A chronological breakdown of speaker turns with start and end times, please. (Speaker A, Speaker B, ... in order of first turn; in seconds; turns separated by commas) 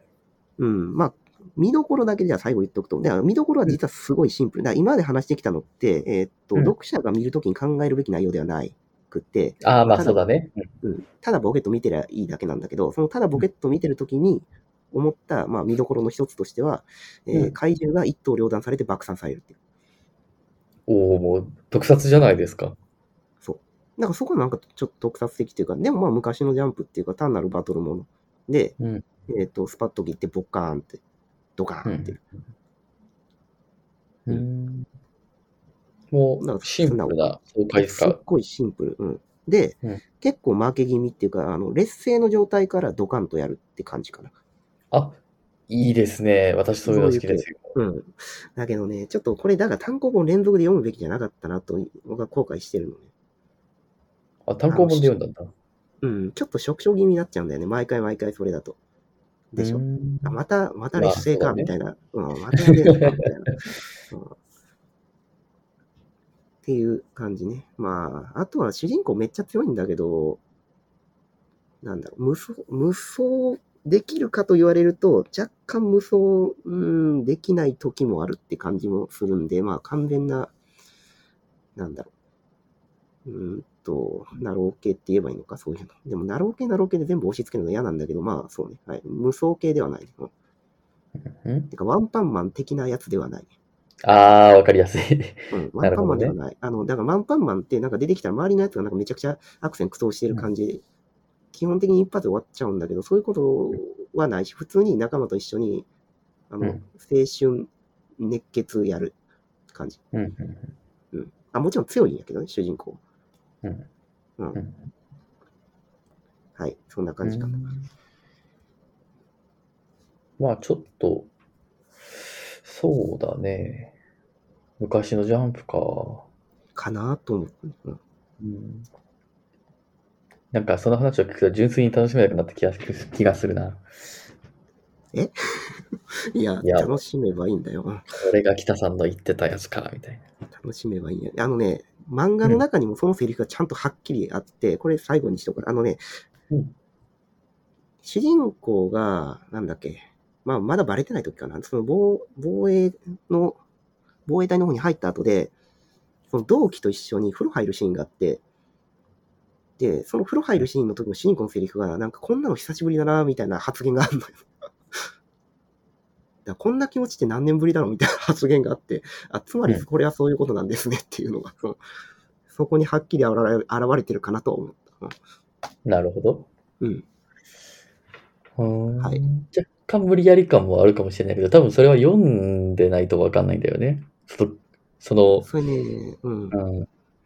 Speaker A: 0.6-10.2, Speaker B: 9.6-10.6, Speaker A: 10.8-19.6, Speaker B: 20.9-22.8, Speaker A: 23.4-28.8, Speaker B: 28.8-29.0, Speaker A: 29.3-31.0, Speaker A: 31.6-32.2, Speaker B: 31.9-32.4, Speaker B: 34.3-34.9, Speaker B: 36.1-38.2, Speaker A: 36.4-37.2, Speaker A: 37.7-44.3, Speaker B: 44.9-45.2, Speaker B: 45.7-47.8, Speaker A: 46.9-53.1, Speaker B: 54.5-55.5, Speaker A: 54.7-55.1, Speaker A: 56.0-58.8, Speaker A: 59.5-64.4, Speaker B: 59.6-60.4, Speaker B: 61.0-61.7, Speaker A: 66.6-70.4, Speaker A: 71.8-80.5, Speaker A: 81.8-82.1, Speaker A: 83.2-90.3, Speaker B: 91.2-91.7, Speaker A: 91.7-93.5, Speaker B: 94.0-96.3, Speaker A: 95.5-100.8, Speaker A: 101.5-105.9, Speaker A: 106.5-109.1, Speaker A: 109.7-110.0, Speaker B: 110.1-110.7, Speaker A: 111.1-113.0, Speaker B: 113.6-113.9, Speaker B: 114.5-114.9, Speaker A: 116.6-117.8, Speaker B: 117.2-117.9, Speaker B: 120.4-121.3, Speaker B: 122.6-123.9, Speaker B: 124.8-126.2, Speaker A: 126.8-128.0, Speaker B: 128.4-128.9, Speaker B: 130.5-133.8, Speaker A: 135.1-135.8, Speaker A: 136.3-138.1, Speaker B: 136.6-136.9, Speaker B: 138.1-140.2, Speaker A: 140.5-146.0, Speaker A: 148.0-153.6, Speaker A: 154.2-155.5, Speaker A: 156.3-158.4, Speaker A: 159.8-165.0, Speaker A: 166.5-171.8, Speaker A: 172.5-175.2, Speaker B: 175.9-176.5, Speaker B: 178.6-185.5, Speaker A: 185.4-186.6, Speaker B: 186.5-186.9